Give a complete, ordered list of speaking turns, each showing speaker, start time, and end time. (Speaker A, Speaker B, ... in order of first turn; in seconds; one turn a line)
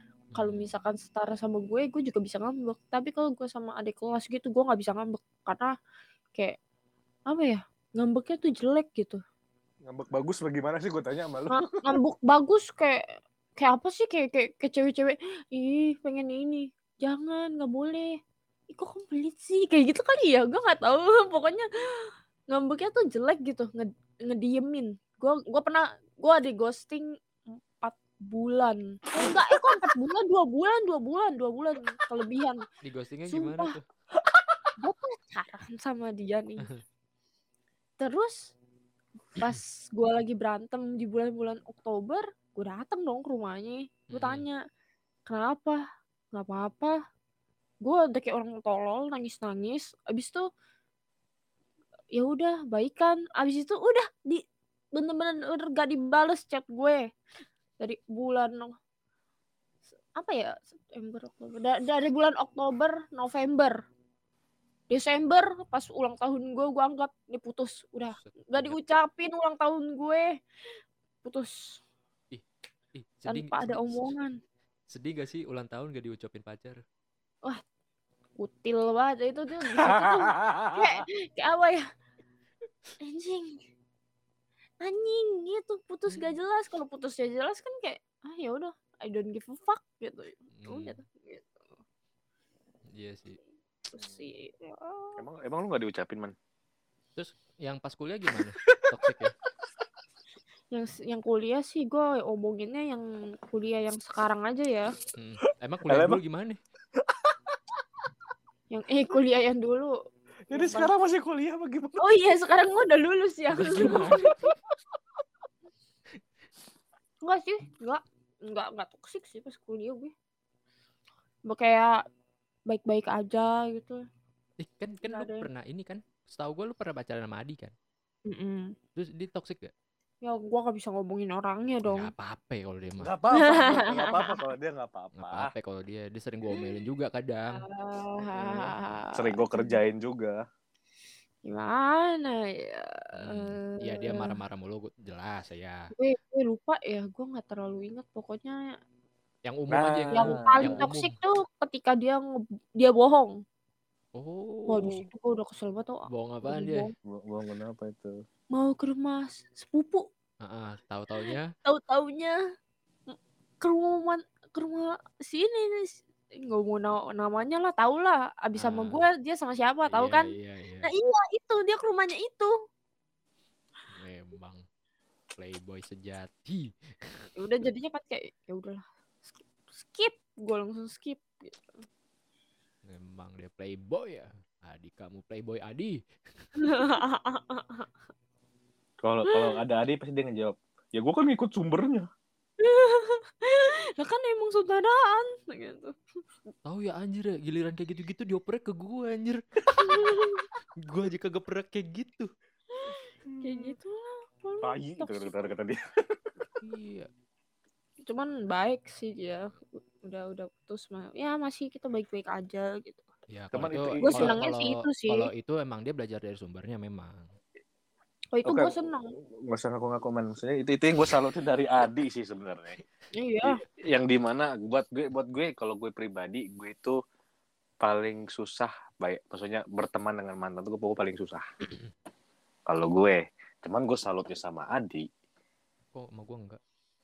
Speaker A: 0.3-0.8
Speaker B: 0.3-5.7
Speaker B: 7.3-9.2
Speaker C: 9.8-11.8
Speaker B: 11.5-13.0
Speaker B: 13.6-18.2
Speaker B: 18.7-27.1
Speaker B: 27.8-32.6
Speaker C: 29.2-29.9
Speaker A: 32.8-33.8
Speaker B: 33.3-33.8
Speaker C: 34.2-34.7
Speaker B: 34.8-36.7
Speaker B: 38.0-38.5
Speaker B: 39.3-44.6
Speaker A: 44.1-44.5
Speaker B: 45.3-45.8
Speaker B: 46.3-47.0
Speaker B: 47.8-50.5
Speaker B: 52.1-54.4
Speaker B: 54.9-57.1
Speaker B: 57.8-58.7
Speaker B: 60.1-63.8
Speaker B: 64.9-70.3
Speaker A: 68.2-68.8
Speaker B: 71.2-71.8
Speaker A: 72.3-74.1
Speaker B: 73.3-74.4
Speaker A: 74.9-76.8
Speaker B: 78.4-81.8
Speaker C: 79.8-81.0
Speaker B: 83.0-83.6
Speaker B: 84.8-91.6
Speaker A: 90.5-91.0
Speaker A: 92.9-93.4
Speaker B: 93.9-95.2
Speaker C: 95.2-96.3
Speaker A: 97.2-99.3
Speaker C: 98.6-99.0
Speaker B: 100.7-104.9
Speaker A: 105.2-106.6
Speaker C: 105.9-106.2
Speaker C: 107.0-107.5
Speaker B: 108.7-109.9
Speaker C: 110.5-112.0
Speaker B: 110.5-110.9
Speaker B: 112.0-114.3
Speaker A: 113.5-114.4
Speaker C: 113.9-114.3
Speaker B: 117.2-120.1
Speaker B: 121.5-122.0
Speaker B: 122.7-124.0
Speaker A: 124.6-127.7
Speaker B: 125.0-125.5
Speaker B: 128.3-128.7
Speaker A: 128.9-129.7
Speaker B: 130.2-132.1
Speaker A: 131.9-133.1
Speaker C: 133.0-135.5
Speaker B: 133.4-134.3
Speaker A: 135.2-137.6
Speaker B: 137.5-139.8
Speaker C: 139.1-140.4
Speaker B: 141.4-144.4
Speaker A: 143.2-145.9
Speaker B: 145.9-148.6
Speaker A: 149.4-151.2
Speaker C: 149.7-150.8
Speaker B: 150.1-153.3
Speaker A: 154.1-155.0
Speaker B: 154.7-156.9
Speaker A: 156.1-156.9
Speaker C: 157.1-158.2
Speaker B: 158.5-160.1
Speaker A: 160.4-161.5
Speaker B: 161.2-162.3
Speaker B: 163.1-170.3
Speaker A: 168.6-169.1
Speaker A: 169.9-170.9
Speaker B: 170.8-172.5
Speaker A: 173.9-174.6
Speaker A: 175.3-177.2
Speaker B: 177.4-178.8
Speaker B: 179.8-181.8
Speaker A: 182.8-186.5
Speaker B: 186.6-187.9
Speaker C: 189.0-192.1
Speaker B: 192.6-195.9
Speaker A: 196.6-200.1
Speaker B: 199.8-200.5
Speaker A: 200.8-202.3
Speaker B: 202.7-205.3
Speaker C: 203.3-203.8
Speaker C: 204.6-205.8
Speaker A: 206.6-207.1
Speaker B: 208.1-213.0
Speaker A: 213.3-217.3
Speaker C: 213.5-214.4
Speaker B: 214.0-215.3
Speaker B: 218.3-219.1
Speaker C: 218.4-218.7
Speaker C: 219.5-222.8
Speaker B: 223.1-223.6
Speaker C: 223.4-227.0
Speaker C: 227.8-231.4
Speaker C: 232.7-235.1
Speaker A: 235.9-236.6